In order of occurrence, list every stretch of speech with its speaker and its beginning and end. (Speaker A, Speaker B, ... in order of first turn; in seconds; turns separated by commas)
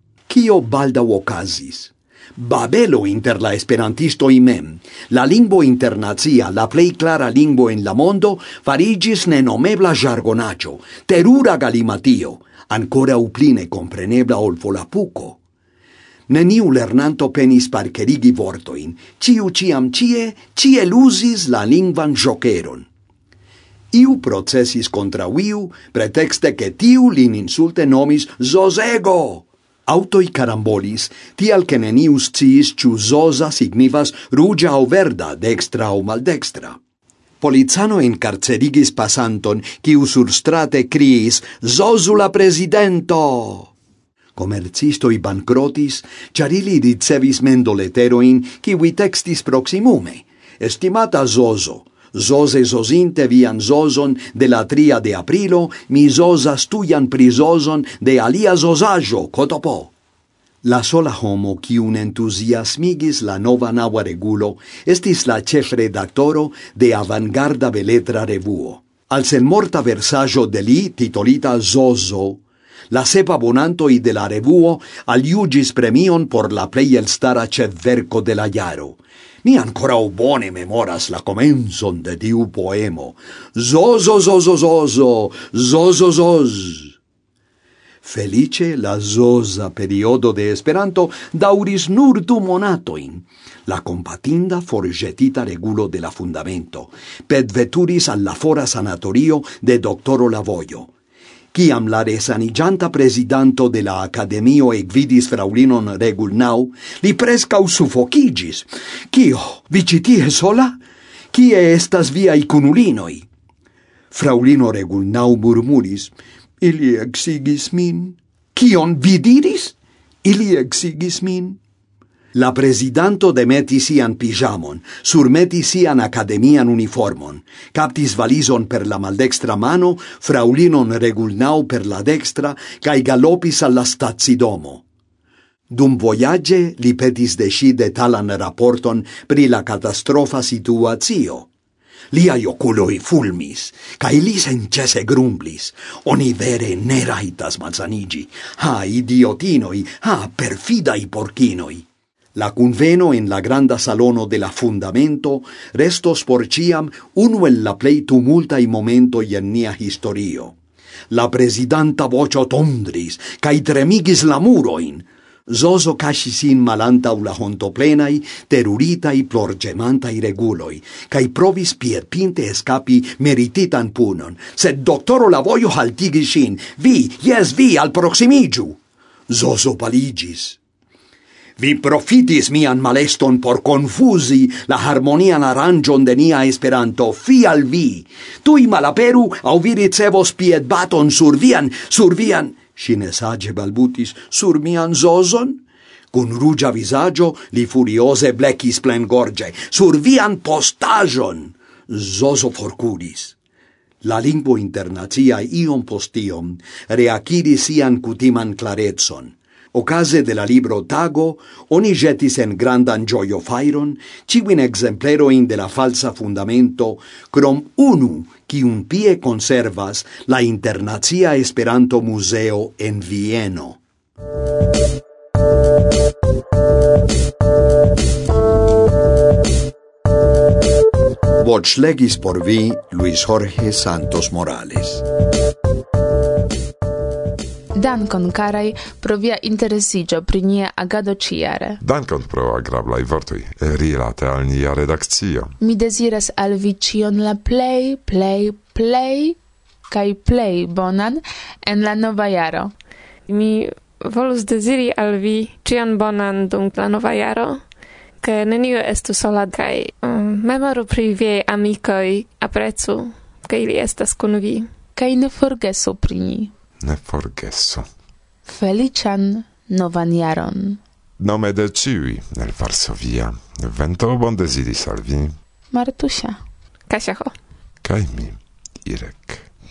Speaker A: 0.3-15.4, Speaker A: 16.3-22.9, Speaker A: 23.9-36.8, Speaker A: 37.4-43.7, Speaker A: 44.4-59.9, Speaker A: 60.6-86.9, Speaker A: 88.0-100.9, Speaker A: 101.5-110.8, Speaker A: 111.3-113.2, Speaker A: 114.1-121.6, Speaker A: 122.3-134.8, Speaker A: 135.7-141.5, Speaker A: 142.1-160.5, Speaker A: 161.1-180.6, Speaker A: 181.6-195.6, Speaker A: 196.1-203.3, Speaker A: 204.0-223.8, Speaker A: 231.4-235.0, Speaker B: 237.7-241.8, Speaker C: 241.8-245.5, Speaker B: 245.6-249.4, Speaker B: 249.9-252.7, Speaker D: 253.3-257.6, Speaker D: 258.2-264.7, Speaker B: 264.9-266.5, Speaker C: 266.8-267.9, Speaker B: 268.4-270.8, Speaker C: 271.2-275.4, Speaker B: 275.7-276.4, Speaker D: 276.9-277.3, Speaker C: 277.8-279.4